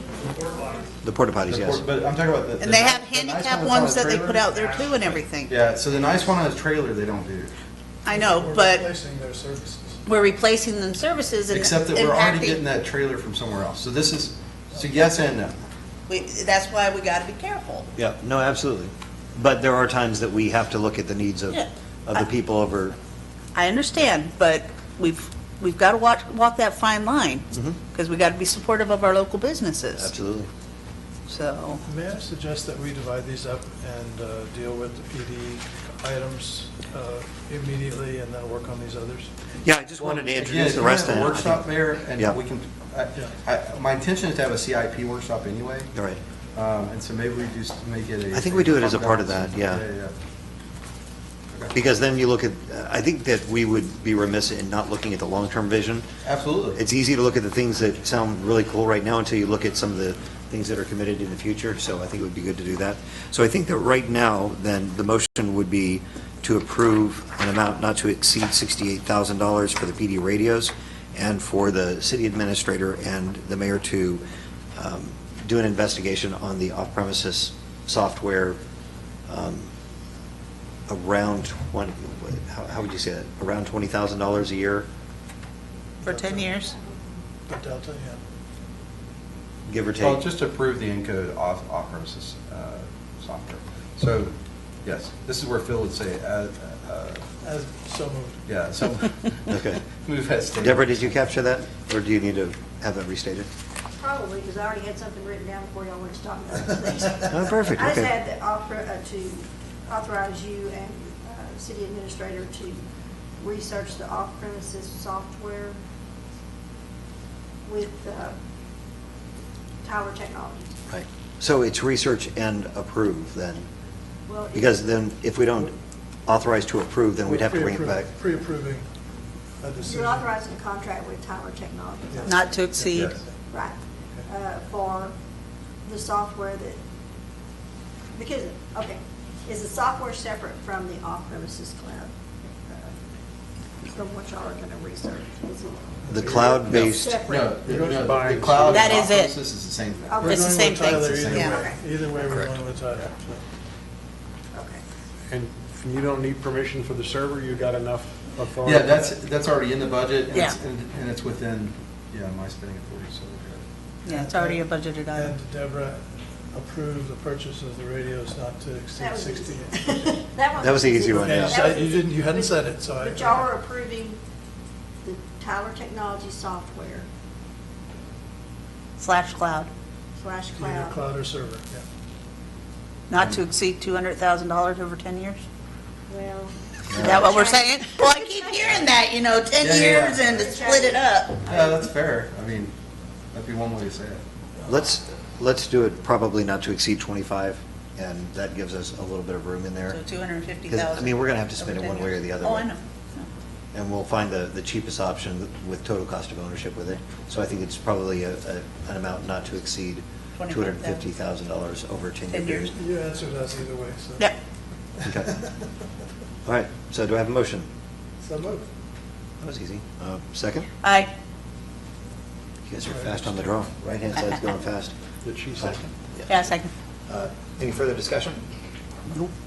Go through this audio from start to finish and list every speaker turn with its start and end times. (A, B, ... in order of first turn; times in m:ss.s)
0:01.0-0:01.8 A
0:01.5-0:07.5 B
0:02.6-0:05.5 C
0:08.0-0:08.9 C
0:08.1-0:10.0 D
0:10.0-0:12.6 C
0:11.5-0:15.6 B
0:16.1-0:17.9 C
0:18.0-0:23.0 A
0:23.5-0:30.1 C
0:27.5-0:27.8 A
0:30.0-0:30.5 A
0:31.3-0:31.8 C
0:31.8-0:39.3 D
0:39.6-0:42.4 A
0:40.0-0:45.9 B
0:45.9-0:46.2 A
0:46.5-0:50.1 B
0:48.3-0:49.8 A
0:51.7-0:56.0 A
0:56.2-0:56.8 B
0:56.7-1:14.2 A
1:14.8-1:18.6 A
1:19.3-1:19.7 A
1:20.9-1:24.9 A
1:26.0-1:26.5 D
1:26.0-1:26.7 C
1:26.6-1:27.0 E
1:27.5-1:28.2 D
1:29.7-1:30.2 A
1:30.0-1:37.2 B
1:37.4-1:38.4 D
1:38.5-1:41.1 B
1:39.5-1:39.8 A
1:40.6-1:43.5 A
1:44.0-1:52.8 E
1:47.2-1:48.1 A
1:53.4-1:55.8 E
1:57.6-1:58.4 E
1:59.8-2:00.7 E
2:00.9-2:03.7 A
2:04.3-2:04.8 E
2:04.5-2:05.7 A
2:06.3-2:08.1 A
2:07.2-2:08.9 D
2:09.6-2:10.3 D
2:09.8-2:12.6 E
2:12.1-2:13.4 D
2:12.2-2:13.1 C
2:12.9-2:13.2 B
2:13.5-2:15.1 E
2:15.8-2:16.8 E
2:18.1-2:23.0 E
2:23.8-2:27.8 E
2:26.0-2:26.6 D
2:26.1-2:27.2 A
2:26.7-2:31.6 B
2:27.7-2:28.0 D
2:27.8-2:28.9 F
2:28.6-2:29.3 C
2:30.0-2:32.2 E
2:30.2-2:33.4 D
2:30.2-2:31.6 C
2:34.5-2:34.8 E
2:35.3-2:39.0 F
2:38.6-2:43.6 B
2:44.0-2:45.4 C
2:44.1-2:44.6 D
2:45.1-2:49.8 D
2:49.0-2:54.2 E
2:50.6-2:51.7 A
2:51.0-2:53.5 D
2:55.0-2:57.1 E
2:59.0-2:59.7 C
3:00.2-3:01.1 E
3:00.5-3:01.8 D
3:03.1-3:05.4 C
3:03.1-3:03.4 B
3:06.1-3:08.8 E
3:06.9-3:07.3 A
3:07.0-3:11.4 C
3:09.6-3:10.4 B
3:09.6-3:11.9 E
3:11.4-3:12.7 B
3:13.3-3:14.2 B
3:14.6-3:20.0 A
3:19.9-3:23.3 C
3:20.7-3:22.7 A
3:23.7-3:32.7 A
3:30.4-3:31.0 C
3:32.3-3:32.8 C
3:32.8-3:34.3 D
3:35.0-3:35.4 D
3:36.4-3:37.7 A
3:38.2-3:38.7 D
3:39.4-3:40.7 A
3:40.8-3:41.1 C
3:42.7-3:44.9 A
3:42.9-3:43.5 D
3:45.2-3:45.8 B
3:45.5-3:46.3 A
3:46.3-3:46.7 C
3:47.1-3:48.4 A